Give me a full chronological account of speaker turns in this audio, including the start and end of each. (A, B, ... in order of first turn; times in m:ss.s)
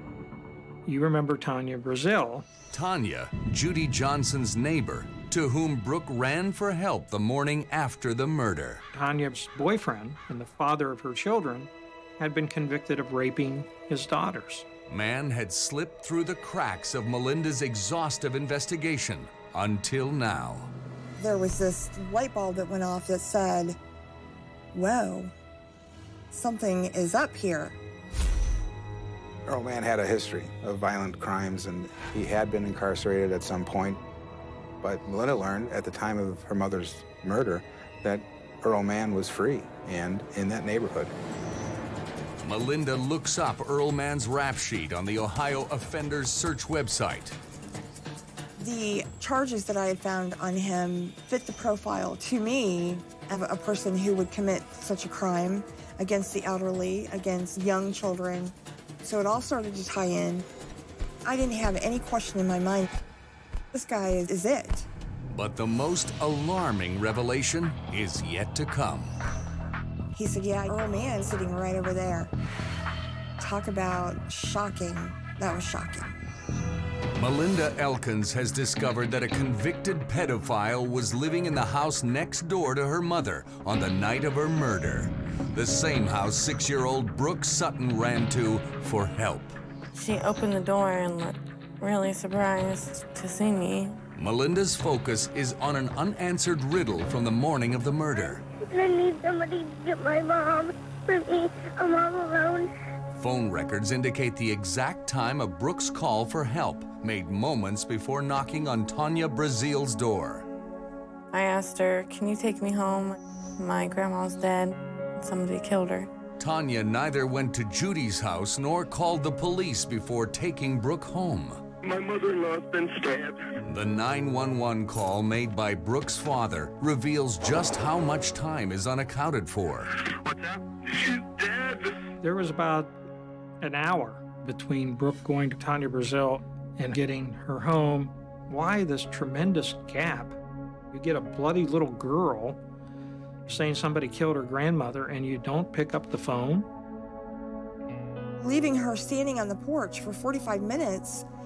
0:00.9-0:02.5 A
0:02.7-0:08.8 B
0:08.9-0:14.7 A
0:14.9-0:20.7 B
0:21.2-0:23.8 C
0:24.7-0:25.3 C
0:26.3-0:27.8 C
0:29.5-0:34.0 D
0:34.8-0:41.1 D
0:42.4-0:47.4 B
0:48.6-1:00.5 C
1:01.2-1:02.9 C
1:03.7-1:04.9 C
1:05.3-1:09.2 B
1:10.1-1:12.3 C
1:13.4-1:16.2 C
1:17.2-1:29.6 B
1:29.9-1:34.0 E
1:34.2-1:38.4 B
1:38.7-1:42.7 F
1:43.1-1:50.5 B
1:51.3-1:56.1 E
1:56.4-2:01.6 B
2:01.8-2:03.4 G
2:03.6-2:09.9 B
2:10.0-2:12.0 G
2:12.2-2:12.9 A
2:13.6-2:20.4 A
2:20.9-2:22.6 A
2:23.5-2:26.7 A
2:28.4-2:31.2 C